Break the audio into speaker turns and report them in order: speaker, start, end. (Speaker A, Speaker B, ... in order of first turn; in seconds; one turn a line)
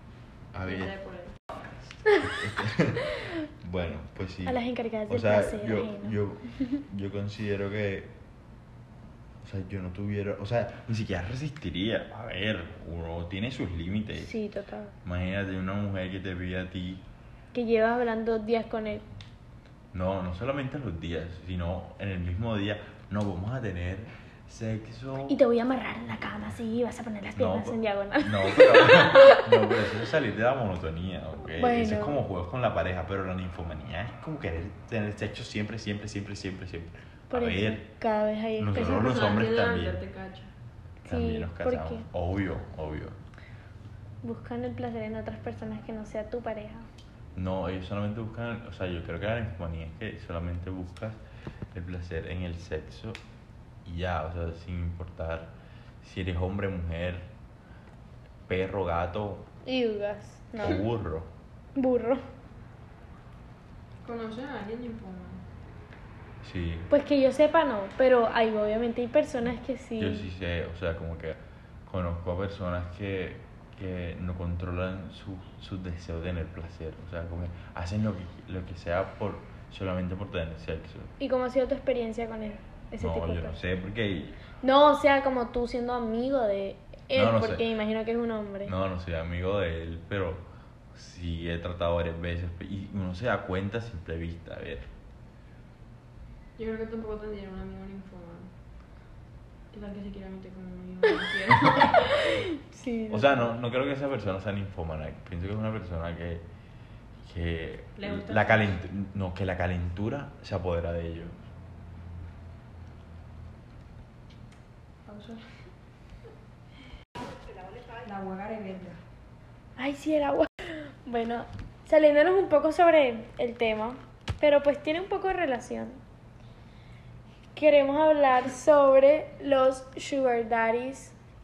Speaker A: 0.5-1.0
Speaker B: 0.7-1.6
Speaker A: 2.2-8.2
Speaker C: 4.5-6.2
Speaker A: 9.4-14.4
Speaker C: 14.2-15.0
Speaker A: 15.0-17.1
Speaker C: 17.5-19.1
Speaker A: 19.9-25.4
Speaker C: 25.3-29.7
Speaker A: 27.4-37.9
Speaker C: 31.5-32.2
Speaker C: 37.3-39.3
Speaker A: 38.6-40.0
Speaker B: 38.7-40.5
Speaker C: 41.0-42.1
Speaker A: 41.1-43.2
Speaker C: 44.2-46.9
Speaker A: 47.4-51.2
Speaker A: 51.7-53.2
Speaker A: 53.9-57.3
Speaker A: 58.5-59.5
Speaker C: 59.6-60.8
Speaker A: 60.6-61.3
Speaker C: 61.8-62.3
Speaker B: 64.0-65.4
Speaker A: 66.4-66.9
Speaker C: 66.9-70.3
Speaker A: 70.0-81.1
Speaker C: 81.2-83.6
Speaker A: 83.0-84.4
Speaker C: 84.6-88.7
Speaker A: 87.1-87.7
Speaker A: 88.6-94.9
Speaker B: 96.6-98.5
Speaker B: 99.7-102.2
Speaker C: 102.2-103.5
Speaker A: 103.1-106.5
Speaker A: 107.2-111.4
Speaker B: 108.0-108.7
Speaker B: 115.1-115.7
Speaker B: 118.0-119.0
Speaker C: 119.8-126.0
Speaker C: 127.5-131.2